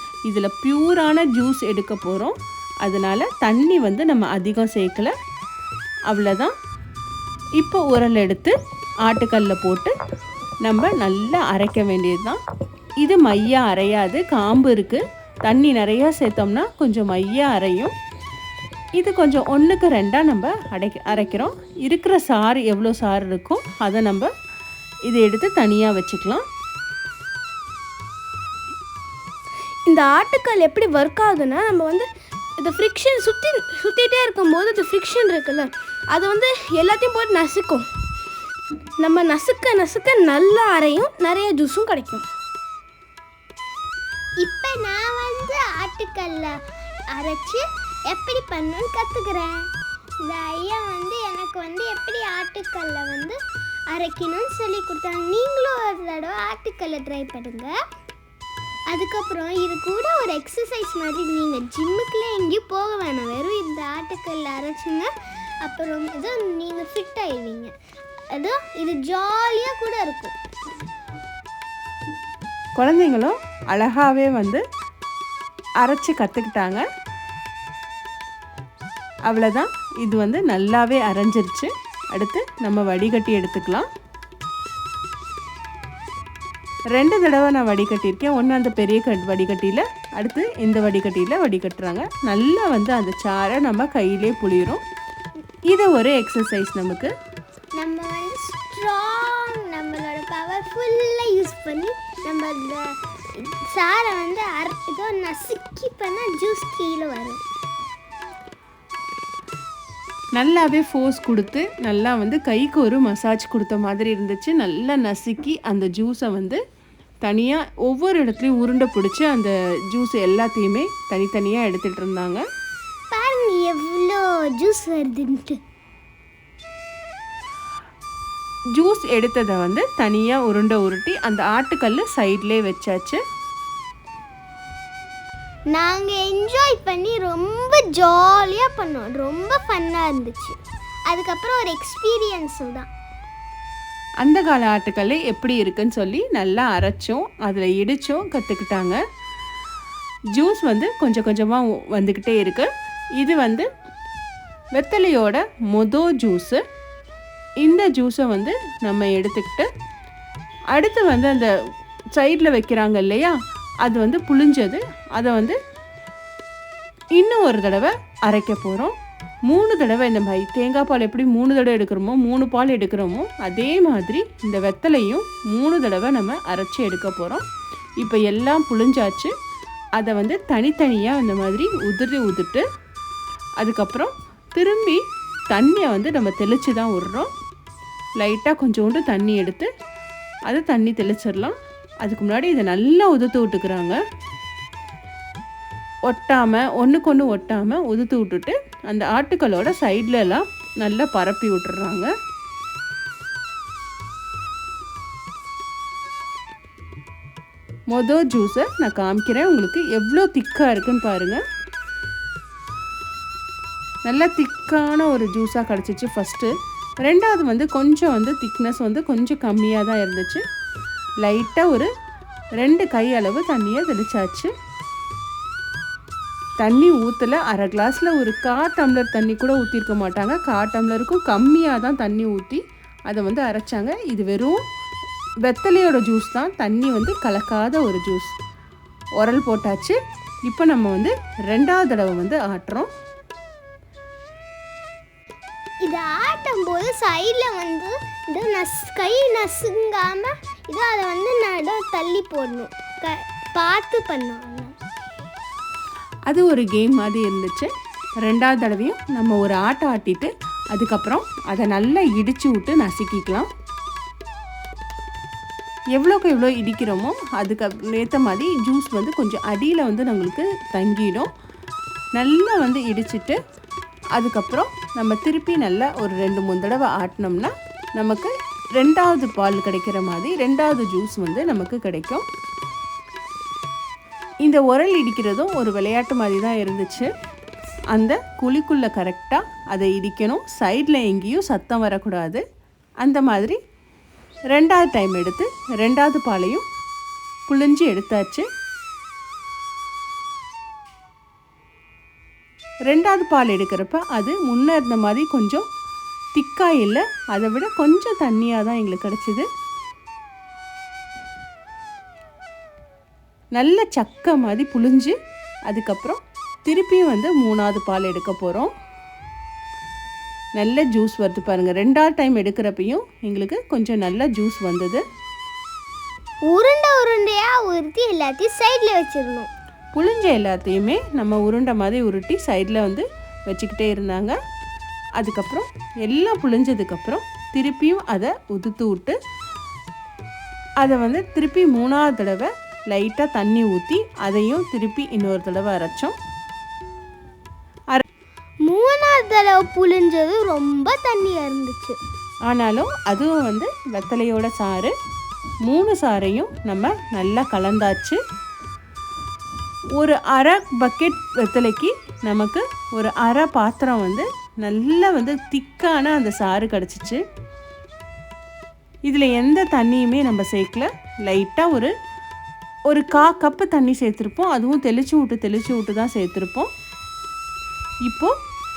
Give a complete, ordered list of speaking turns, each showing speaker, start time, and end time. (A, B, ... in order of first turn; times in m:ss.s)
0:00.3-0:05.1 A
0:06.1-0:06.5 A
0:07.6-0:08.5 A
0:09.1-0:09.9 A
0:10.6-0:12.4 A
0:13.0-0:17.9 A
0:19.0-0:24.3 A
0:25.1-0:26.4 A
0:29.9-0:32.1 B
0:32.6-0:37.8 B
0:39.0-0:42.2 B
0:44.4-0:46.5 C
0:47.1-0:49.5 C
0:50.2-0:53.4 C
0:53.9-0:57.7 C
0:58.9-1:05.1 C
1:05.6-1:07.7 C
1:08.3-1:10.3 C
1:12.8-1:14.6 A
1:15.8-1:16.8 A
1:19.3-1:23.9 A
1:26.9-1:34.8 A
1:35.7-1:37.1 A
1:37.8-1:42.8 C
1:43.4-1:47.4 C
1:50.4-1:56.6 A
1:57.2-2:02.4 A
2:03.1-2:05.6 C
2:08.8-2:13.2 A
2:15.7-2:22.9 C
2:24.2-2:29.0 A
2:30.4-2:33.7 A
2:34.8-2:36.6 A
2:37.6-2:39.7 A
2:40.7-2:41.5 A
2:42.2-2:45.6 A
2:47.2-2:48.9 A
2:49.5-2:57.4 A
2:58.0-2:59.3 A
3:00.0-3:02.6 A
3:03.6-3:05.0 A
3:05.5-3:07.3 A
3:08.2-3:09.7 A
3:10.5-3:14.0 A
3:16.1-3:22.1 A
3:27.9-3:31.4 A
3:34.1-3:36.5 A
3:37.0-3:40.4 A
3:41.2-3:41.9 A
3:42.6-3:44.5 A
3:46.6-3:54.6 A
3:55.4-3:58.3 A
3:59.2-4:02.9 A
4:05.8-4:14.7 C
4:16.3-4:17.7 A
4:18.2-4:23.5 A
4:26.0-4:31.3 A
4:32.2-4:33.4 A
4:34.2-4:42.2 A
4:44.4-4:47.1 A
4:47.9-4:52.4 A
4:53.0-4:53.6 A
4:54.5-4:56.6 A
4:57.5-4:58.4 A
5:02.9-5:05.6 A
5:06.4-5:09.5 A
5:13.6-5:15.2 A
5:15.7-5:18.7 A
5:20.6-5:25.0 A
5:26.5-5:29.5 C
5:29.9-5:34.4 A
5:35.2-5:39.2 A
5:40.8-5:46.1 A
5:48.7-5:52.0 C
5:52.5-5:54.9 A
5:55.6-5:58.2 A
6:00.0-6:07.2 A
6:09.1-6:11.9 A
6:12.9-6:16.7 A